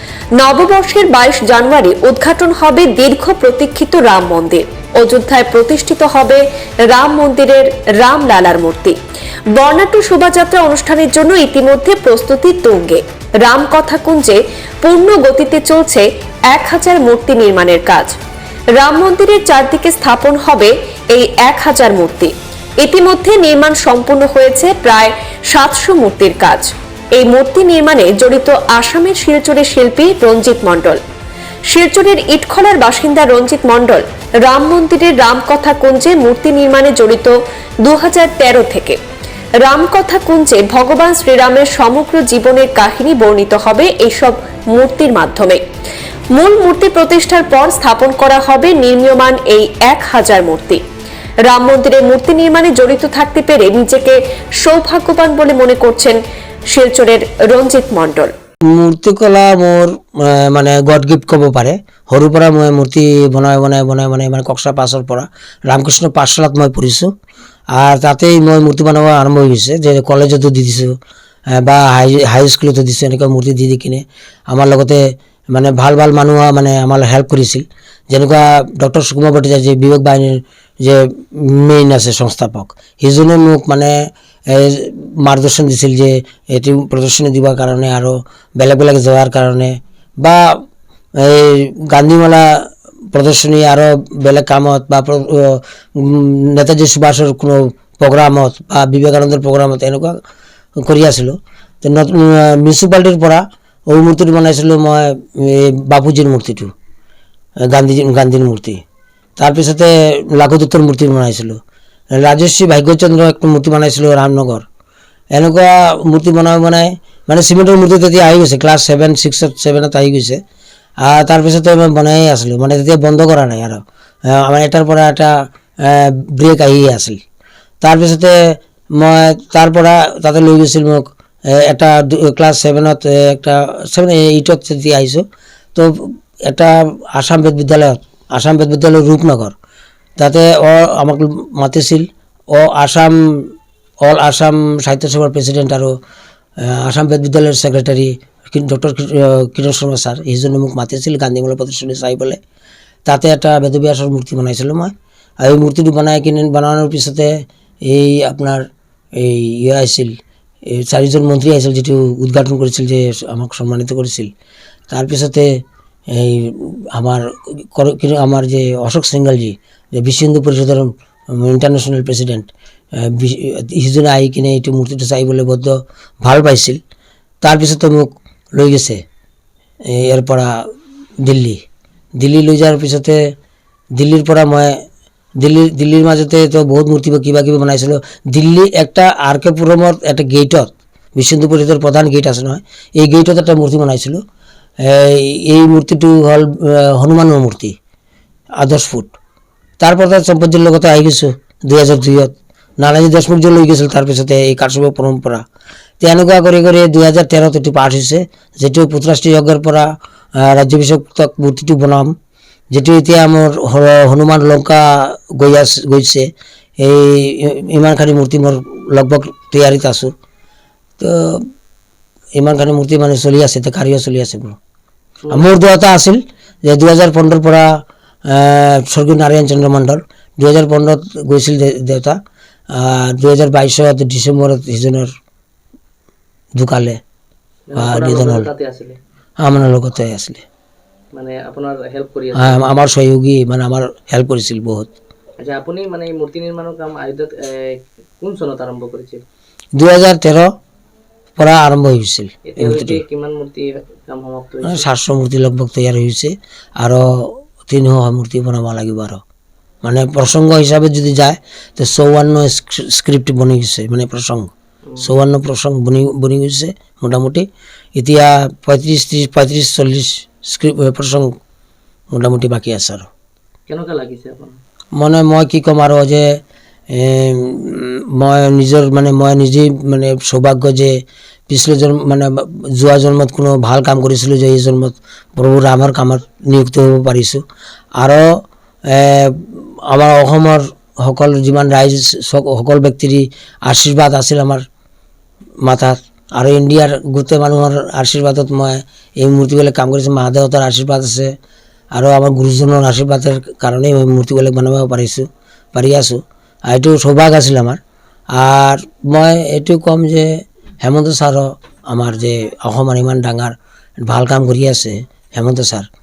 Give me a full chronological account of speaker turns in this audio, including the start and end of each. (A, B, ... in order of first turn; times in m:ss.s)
0:00.4-0:09.0 A
0:09.5-0:18.1 A
0:18.7-0:31.0 A
0:31.7-0:39.0 A
0:39.6-0:45.6 A
0:46.3-0:50.8 A
0:51.4-0:56.2 A
0:56.7-0:58.3 A
0:58.7-1:07.1 B
1:07.7-1:10.9 B
1:11.5-1:30.6 B
1:31.2-1:40.2 B
1:40.8-1:46.7 B
1:47.6-1:48.8 B
1:49.4-1:51.6 B
1:52.1-1:54.6 B
1:55.3-2:00.4 B
2:01.0-2:07.2 B
2:07.8-2:19.5 B
2:20.2-2:23.2 B
2:24.0-2:25.9 B
2:26.6-2:32.4 B
2:33.0-2:37.3 B
2:37.8-2:44.3 B
2:44.9-2:56.8 B
2:57.4-2:59.0 B
2:59.9-3:00.6 B
3:01.2-3:01.6 B
3:02.2-3:03.3 B
3:04.0-3:04.8 B
3:05.4-3:14.2 B
3:14.8-3:17.8 B
3:18.6-3:19.1 B
3:19.8-3:25.4 B
3:26.0-3:32.1 B
3:32.7-3:36.3 B
3:36.8-3:40.1 B
3:41.0-3:41.4 B
3:42.4-3:44.6 B
3:45.2-3:45.5 C
3:45.3-3:52.2 B
3:52.7-3:55.1 B
3:56.6-3:57.0 B
3:57.7-3:59.0 C
3:57.8-3:58.5 B
3:59.4-4:00.4 B
4:01.1-4:02.7 C
4:02.3-4:04.9 B
4:05.4-4:09.2 C
4:09.7-4:10.5 B
4:11.4-4:13.0 B
4:12.5-4:14.8 C
4:14.6-4:19.2 B
4:19.8-4:31.3 B
4:32.1-4:33.1 B
4:33.7-4:34.6 C
4:35.0-4:36.3 B
4:36.9-4:41.0 B
4:41.5-4:47.4 B
4:48.0-4:48.4 B
4:48.9-4:54.6 B
4:55.6-5:01.3 B
5:01.9-5:07.8 B
5:08.3-5:15.9 B